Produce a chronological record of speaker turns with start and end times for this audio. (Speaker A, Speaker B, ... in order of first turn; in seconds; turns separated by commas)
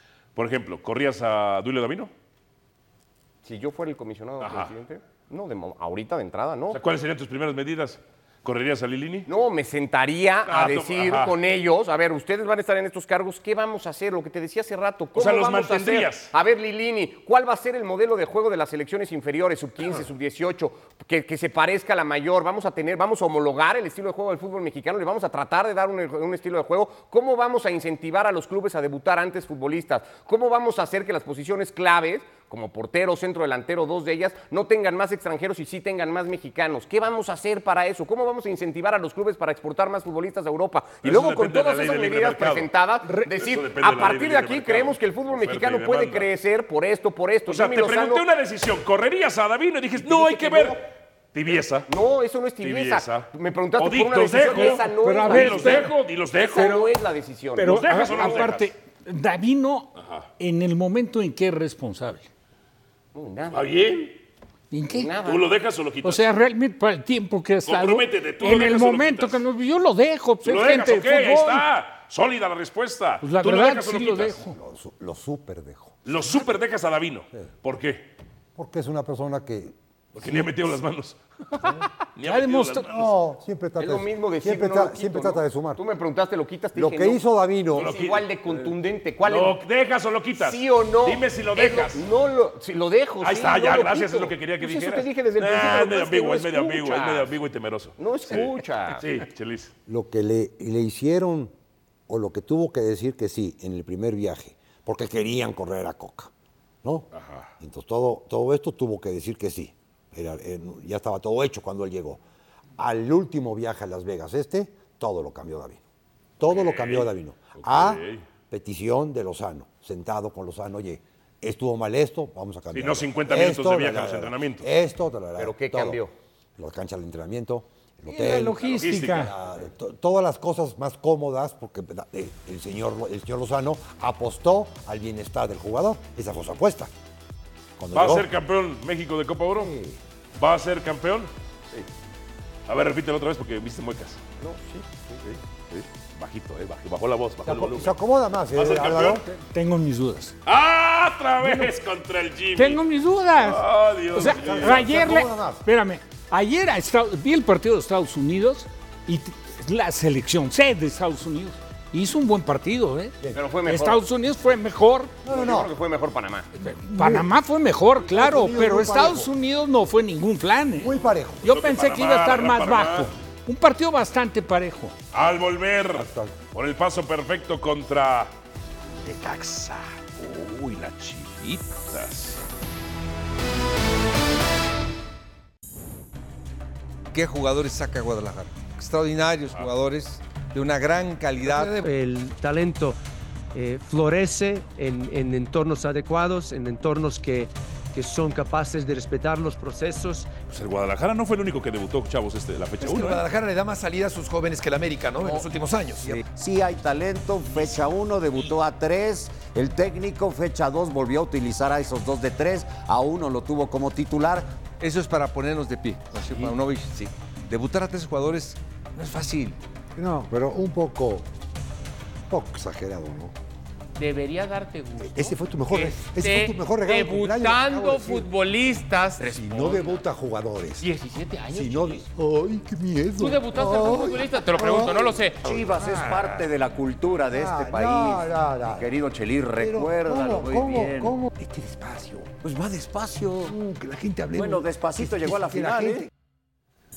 Speaker A: 0.3-2.1, Speaker B: 3.4-6.8, Speaker A: 4.4-4.7, Speaker A: 6.7-9.3, Speaker B: 9.2-48.2, Speaker A: 10.4-11.3, Speaker A: 15.1-16.3, Speaker A: 41.0-42.7, Speaker A: 43.3-46.3, Speaker A: 47.5-51.9, Speaker B: 50.0-50.8, Speaker B: 51.9-58.5, Speaker A: 52.6-56.8, Speaker C: 54.4-55.9, Speaker C: 56.6-56.8, Speaker C: 57.5-62.3, Speaker A: 57.6-58.7, Speaker A: 60.0-60.3, Speaker B: 63.1-63.6, Speaker A: 63.5-64.2, Speaker C: 64.7-65.1, Speaker B: 64.9-65.5, Speaker A: 65.2-66.2, Speaker C: 66.0-71.6, Speaker A: 67.7-69.4, Speaker A: 70.4-74.4, Speaker C: 73.2-74.5, Speaker D: 74.4-75.9, Speaker A: 76.0-78.1, Speaker D: 78.5-80.5, Speaker A: 80.1-83.1, Speaker C: 82.2-83.0, Speaker D: 82.9-85.8, Speaker B: 83.8-87.2, Speaker D: 86.7-87.9, Speaker B: 87.7-89.6, Speaker A: 87.7-92.0, Speaker B: 90.4-97.3, Speaker A: 93.2-99.7, Speaker B: 98.0-99.0, Speaker D: 99.9-101.5, Speaker D: 102.1-106.3, Speaker A: 107.1-107.5, Speaker D: 107.6-112.2, Speaker D: 112.8-115.8, Speaker D: 116.4-126.0, Speaker A: 116.5-118.2, Speaker A: 122.7-124.7, Speaker B: 125.3-126.1, Speaker D: 126.6-136.9, Speaker C: 128.1-129.3, Speaker A: 128.6-129.5, Speaker D: 137.8-138.3, Speaker A: 137.9-139.7, Speaker D: 139.6-140.0, Speaker A: 140.3-141.8, Speaker A: 142.7-144.2, Speaker B: 144.4-145.2, Speaker A: 145.7-147.9, Speaker D: 147.4-149.2, Speaker A: 148.5-149.2, Speaker C: 149.2-150.3, Speaker A: 150.4-152.8, Speaker C: 151.4-151.7, Speaker C: 152.6-153.6, Speaker A: 153.3-155.0, Speaker C: 154.1-165.1, Speaker D: 154.2-155.6, Speaker B: 163.3-164.0, Speaker D: 165.2-165.7, Speaker B: 165.2-166.5, Speaker C: 166.5-174.9, Speaker D: 166.9-167.3, Speaker D: 168.0-169.3, Speaker D: 170.8-171.5, Speaker A: 171.4-173.1, Speaker A: 175.1-178.3, Speaker D: 175.9-176.4, Speaker A: 179.0-182.4, Speaker E: 187.1-191.9, Speaker F: 191.5-193.0, Speaker F: 193.5-200.3, Speaker A: 200.5-203.2, Speaker E: 202.8-206.1, Speaker G: 206.0-214.5, Speaker E: 214.8-219.6, Speaker D: 219.9-221.3, Speaker D: 222.3-223.3, Speaker H: 223.9-230.0, Speaker D: 225.0-228.3, Speaker D: 229.2-230.9, Speaker H: 230.8-232.1, Speaker D: 231.5-236.3, Speaker H: 233.2-235.4, Speaker G: 235.4-241.2, Speaker D: 237.3-238.9, Speaker D: 239.6-242.7, Speaker G: 242.6-243.5, Speaker D: 243.4-246.1, Speaker G: 244.3-246.1